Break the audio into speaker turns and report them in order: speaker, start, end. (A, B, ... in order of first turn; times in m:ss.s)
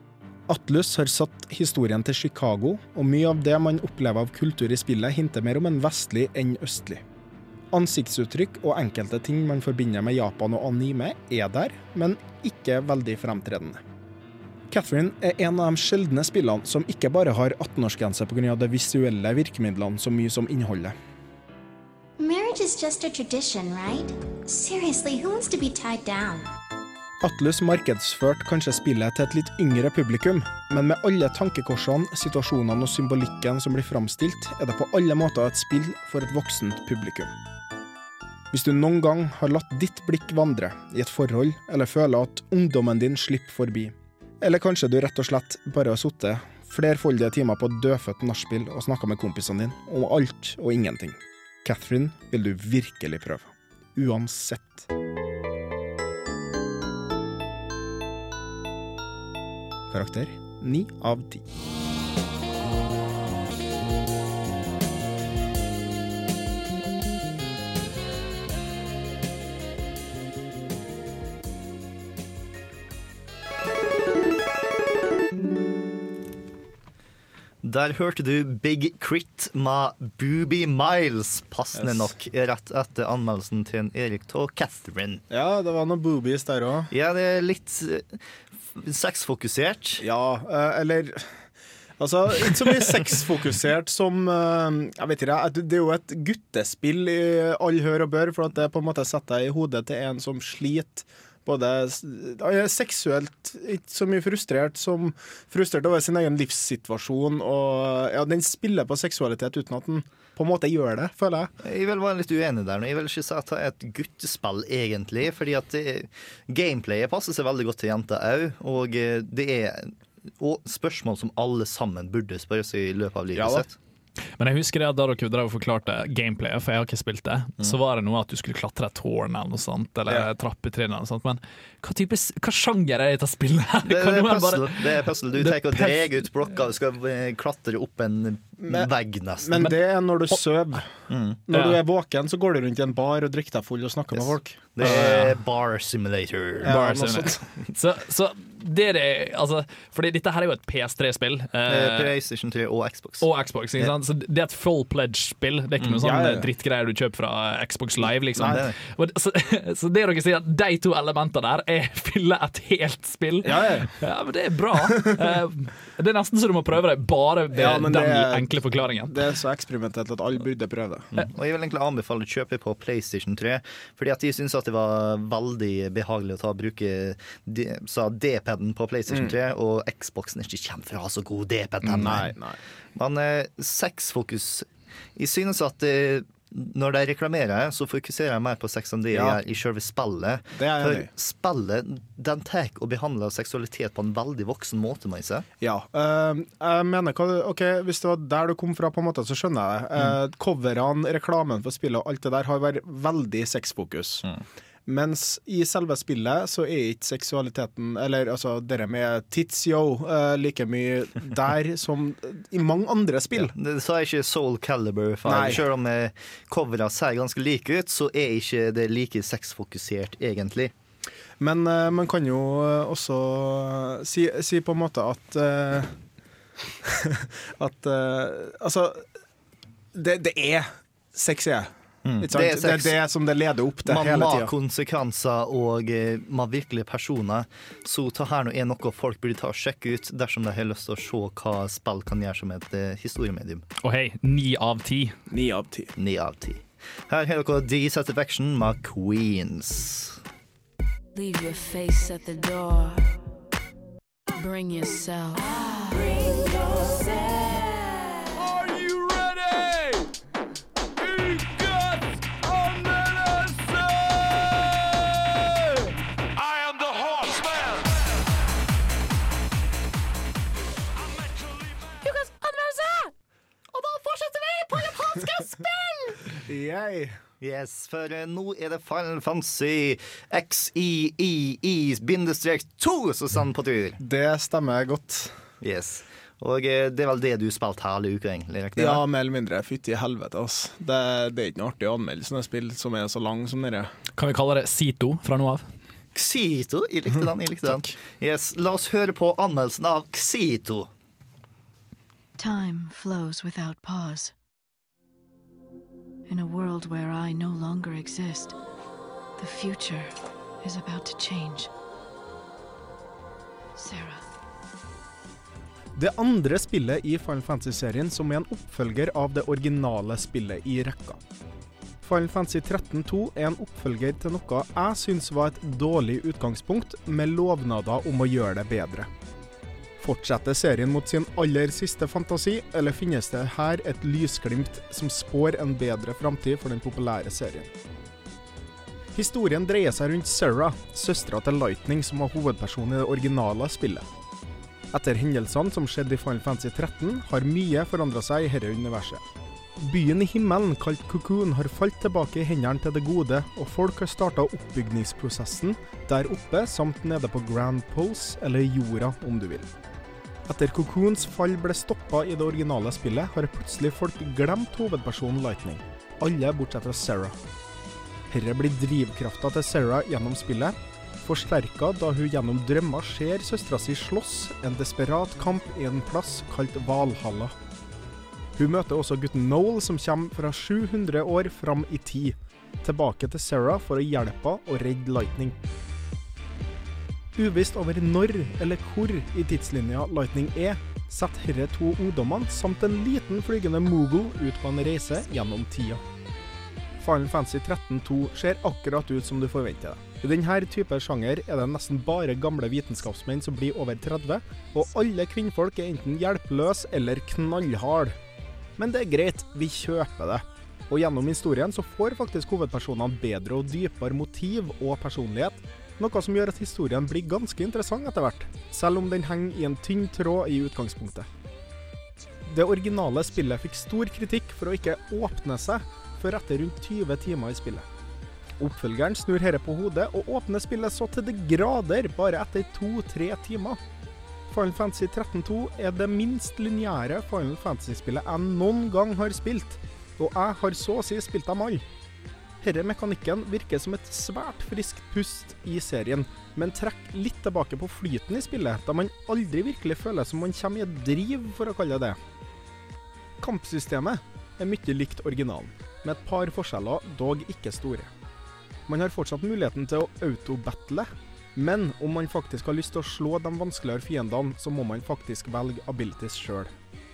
0:00.5-0:07.0 A
0:07.7-0:13.8 A
0:14.7-0:20.9 A
0:22.2-0:26.4 B
0:27.2-0:37.3 A
0:38.5-0:54.9 A
0:59.9-1:01.4 A
1:17.6-1:25.2 C
1:21.7-1:22.1 A
1:25.3-1:26.9 A
1:26.9-1:28.2 C
1:28.7-1:30.0 C
1:30.0-1:31.4 A
1:32.0-1:51.5 A
1:51.6-2:03.8 C
2:03.3-2:03.6 A
2:04.4-2:16.2 D
2:13.8-2:19.6 C
2:18.6-2:20.9 A
2:21.1-2:21.4 C
2:21.5-2:25.2 A
2:21.5-2:21.8 D
2:24.1-2:26.7 C
2:24.8-2:25.3 D
2:26.6-2:27.4 A
2:26.6-2:32.1 D
2:31.6-2:33.3 C
2:33.2-2:49.3 D
2:36.0-2:36.5 A
2:38.4-2:38.8 C
2:43.4-2:44.0 A
2:47.5-2:51.1 A
2:51.1-3:02.3 C
3:01.9-3:02.6 A
3:03.0-3:15.5 C
3:09.1-3:09.4 A
3:10.5-3:11.1 A
3:15.6-3:24.2 A
3:24.8-3:33.5 A
3:33.3-3:40.7 C
3:35.2-3:35.6 A
3:41.4-3:45.9 A
3:46.8-3:49.0 A
3:49.9-3:54.5 A
3:52.0-3:53.0 C
3:53.8-4:03.6 C
4:03.8-4:05.1 D
4:05.3-4:05.9 A
4:06.0-4:10.2 C
4:11.1-4:13.1 E
4:14.3-4:18.1 E
4:32.1-4:33.1 E
4:33.7-4:36.1 C
4:36.4-4:37.1 A
4:37.4-4:44.0 C
4:44.0-4:45.3 A
4:45.6-4:49.0 C
4:48.8-4:53.9 A
4:54.2-4:55.6 D
4:56.1-5:00.9 C
5:02.4-5:04.3 E
5:06.3-5:08.6 E
5:09.4-5:11.7 E
5:13.8-5:14.2 E
5:16.0-5:21.2 A
5:22.0-5:29.1 A
5:30.0-5:37.7 A
5:39.1-5:44.0 A
5:44.9-5:49.2 A
5:49.8-5:59.7 A
6:00.5-6:07.4 A
6:08.3-6:17.5 A
6:18.6-6:25.6 A
6:27.3-6:36.0 A
6:37.0-6:48.1 A
6:48.8-7:01.3 A
7:02.4-7:07.8 A
7:08.6-7:13.8 A
7:14.5-7:21.8 A
7:22.6-7:32.2 A
7:33.4-7:38.1 A
7:38.9-7:46.7 A